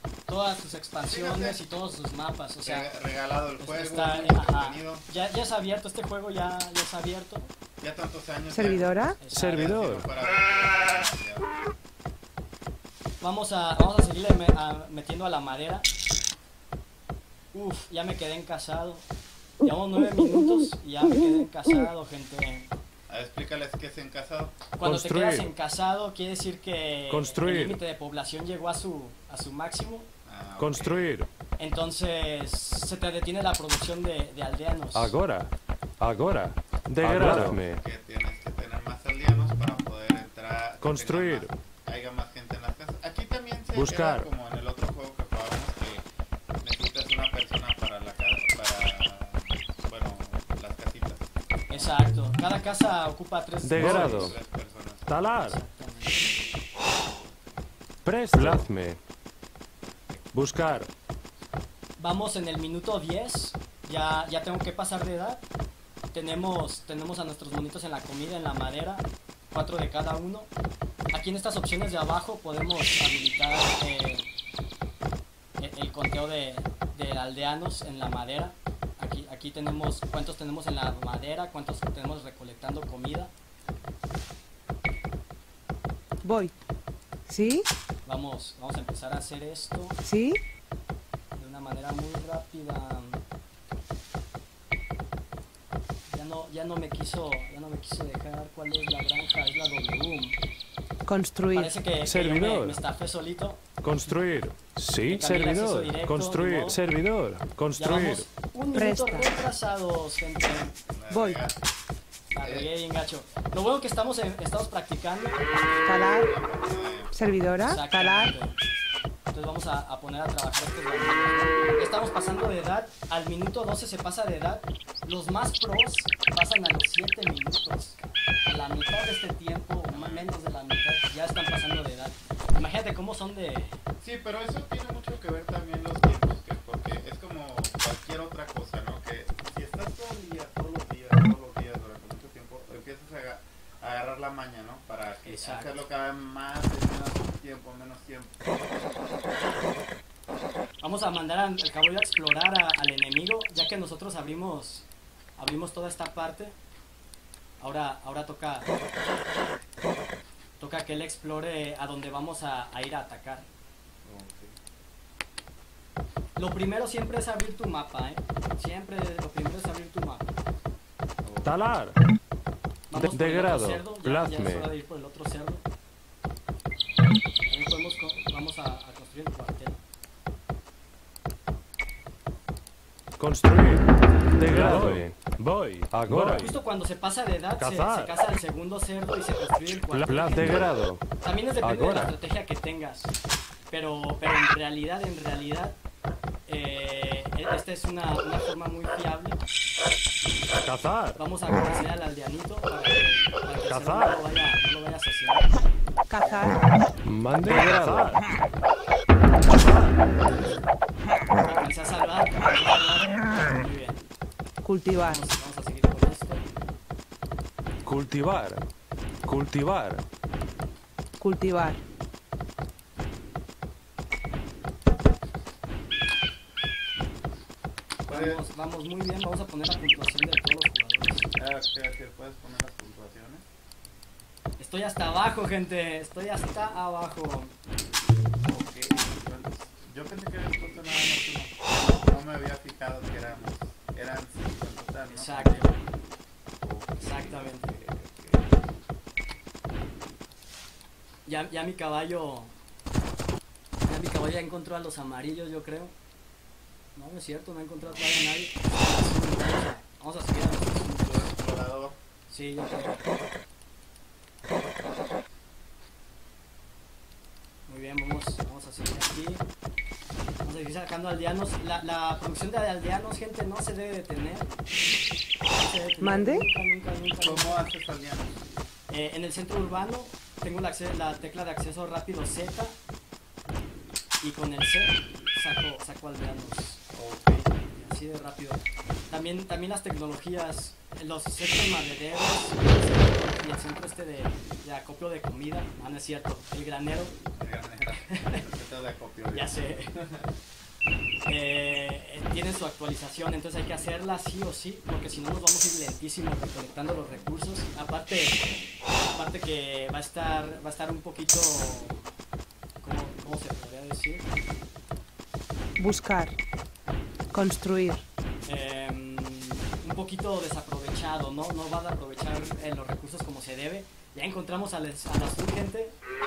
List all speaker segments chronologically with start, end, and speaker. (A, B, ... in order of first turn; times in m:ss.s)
0:00.3-0:02.9 A
0:01.0-0:01.6 B
0:02.6-0:05.0 B
0:03.6-0:07.5 A
0:07.8-0:11.5 B
0:08.5-0:09.2 C
0:09.2-0:09.7 A
0:09.3-0:10.1 D
0:13.2-0:15.9 A
0:17.5-0:19.0 A
0:19.6-0:22.7 A
0:23.1-0:24.6 B
0:24.8-0:30.1 A
0:24.8-0:25.5 D
0:27.1-0:27.8 D
0:30.2-0:31.1 B
0:30.6-0:31.3 D
0:31.6-0:35.1 A
0:34.9-0:37.8 D
0:37.0-0:37.6 E
0:37.2-0:46.0 B
0:40.8-0:41.5 D
0:43.7-0:44.3 D
0:46.6-0:52.0 B
0:51.7-0:54.4 A
0:53.6-0:54.4 D
0:53.8-0:55.3 B
0:55.1-0:55.6 D
0:55.4-0:56.2 A
0:58.0-0:59.0 D
1:00.3-1:00.9 D
1:02.0-1:05.4 A
1:06.1-1:10.5 A
1:11.1-1:14.3 A
1:15.6-1:23.3 A
1:26.2-1:26.5 C
1:27.3-1:27.7 C
1:28.0-1:30.0 A
1:30.0-1:30.4 C
1:31.4-1:33.2 A
1:36.1-1:40.4 A
1:41.0-1:41.7 C
1:41.5-1:43.6 A
1:42.0-1:42.8 D
1:43.8-1:48.3 D
1:45.1-1:46.8 A
1:47.8-1:50.8 A
1:48.7-1:49.3 C
1:50.8-1:51.7 B
1:51.1-1:51.4 C
1:52.3-1:52.7 B
1:52.3-1:55.4 A
1:55.6-1:57.1 B
1:55.8-1:56.3 C
1:57.1-1:58.4 C
1:57.6-1:58.6 A
1:59.3-2:13.8 A
2:09.9-2:10.3 B
2:14.0-2:28.7 B
2:25.2-2:25.7 A
2:30.8-2:36.6 A
2:37.6-2:38.7 A
2:40.6-2:43.5 A
2:44.0-2:44.6 B
2:46.4-2:50.3 A
2:51.2-2:51.6 B
2:51.4-2:52.0 D
2:52.9-2:55.6 A
2:52.9-2:54.7 D
2:57.5-2:59.8 A
3:03.2-3:05.3 D
3:04.4-3:06.5 E
3:05.9-3:06.5 D
3:06.3-3:13.1 A
3:07.6-3:08.1 E
3:07.7-3:08.0 D
3:09.9-3:11.0 D
3:11.6-3:12.1 D
3:13.7-3:15.8 A
3:16.5-3:19.4 A
3:20.6-3:21.2 D
3:21.2-3:25.6 A
3:23.7-3:24.2 D
3:26.1-3:26.7 C
3:26.2-3:26.7 A
3:27.0-3:28.2 D
3:27.4-3:28.2 E
3:29.6-3:29.9 A
3:31.3-3:34.0 A
3:34.6-3:35.2 C
3:34.9-3:36.5 A
3:37.8-3:38.6 D
3:39.2-3:40.0 D
3:41.2-3:41.8 C
3:48.1-3:51.3 A
3:48.1-3:48.4 B
3:51.3-3:53.4 B
3:54.6-3:57.5 A
3:58.4-4:05.9 B
4:05.1-4:05.9 A
4:06.6-4:08.6 B
4:07.0-4:07.6 A
4:11.2-4:12.5 A
4:13.8-4:15.9 A
4:16.9-4:21.3 A
4:21.0-4:22.0 B
4:22.3-4:23.1 A
4:27.7-4:29.4 A
4:30.4-4:34.5 A
4:35.5-4:37.6 A
4:36.0-4:36.5 C
4:37.2-4:38.4 B
4:38.9-4:42.8 A
4:44.2-4:46.8 A
4:46.9-4:47.6 B
4:47.7-4:57.2 A
4:57.3-5:00.3 B
4:58.1-4:58.4 A
4:59.3-5:00.0 A
5:01.2-5:08.4 A
5:09.0-5:12.1 A
5:12.8-5:14.3 A
5:15.8-5:16.4 C
5:17.3-5:18.0 C
5:18.4-5:26.0 A